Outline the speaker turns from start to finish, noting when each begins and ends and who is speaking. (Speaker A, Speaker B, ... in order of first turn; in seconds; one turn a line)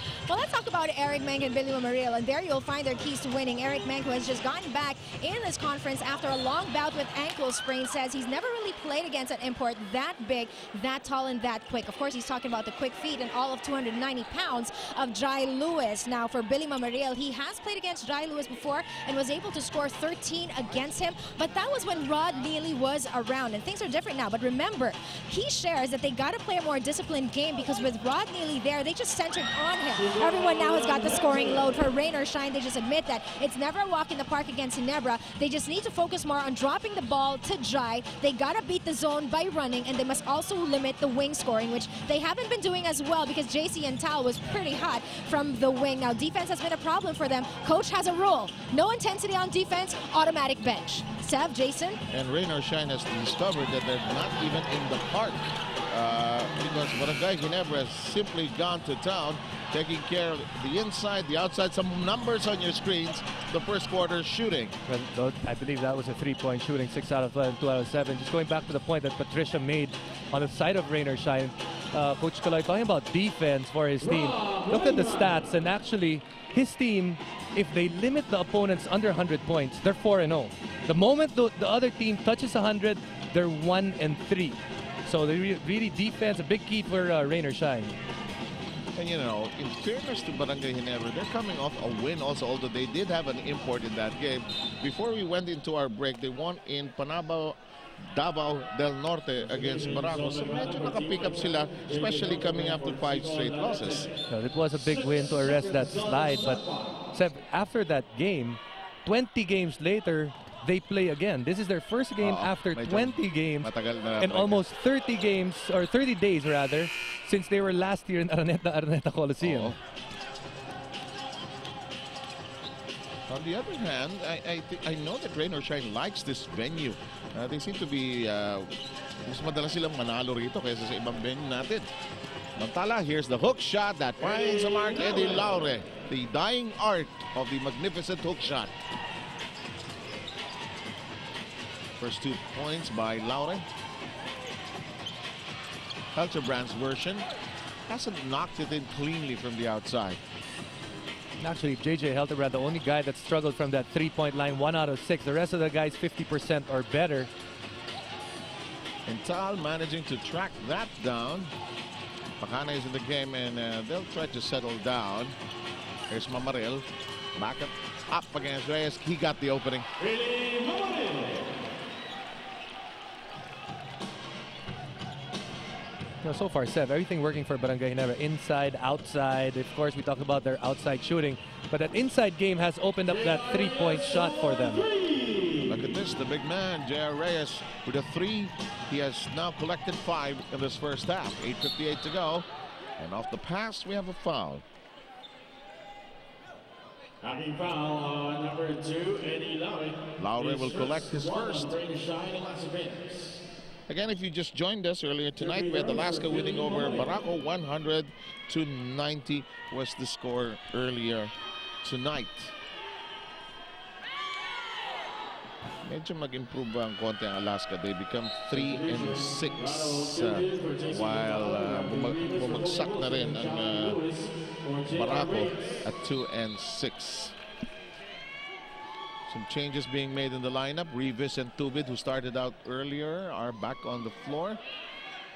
Speaker A: 0.2-52.0
Speaker B: 29.9-31.7
Speaker C: 52.1-64.8
Speaker D: 64.9-88.0
Speaker B: 74.0-75.4
Speaker C: 89.0-104.1
Speaker B: 99.5-104.1
Speaker D: 104.3-119.7
Speaker B: 104.8-107.0
Speaker C: 112.2-114.6
Speaker C: 119.4-119.8
Speaker C: 123.3-131.9
Speaker C: 132.6-138.7
Speaker B: 134.3-135.6
Speaker C: 142.0-143.7
Speaker C: 146.1-147.3
Speaker C: 147.9-150.2
Speaker D: 151.4-157.3
Speaker C: 159.1-161.5
Speaker C: 162.4-165.3
Speaker C: 166.1-169.8
Speaker B: 170.0-171.5
Speaker D: 176.2-184.9
Speaker B: 183.1-185.8
Speaker C: 185.6-192.5
Speaker C: 193.0-194.6
Speaker B: 197.2-203.4
Speaker C: 200.2-201.7
Speaker C: 203.9-212.5
Speaker B: 205.4-207.2
Speaker C: 215.8-224.0
Speaker B: 218.5-225.8
Speaker C: 224.9-227.4
Speaker C: 229.3-234.6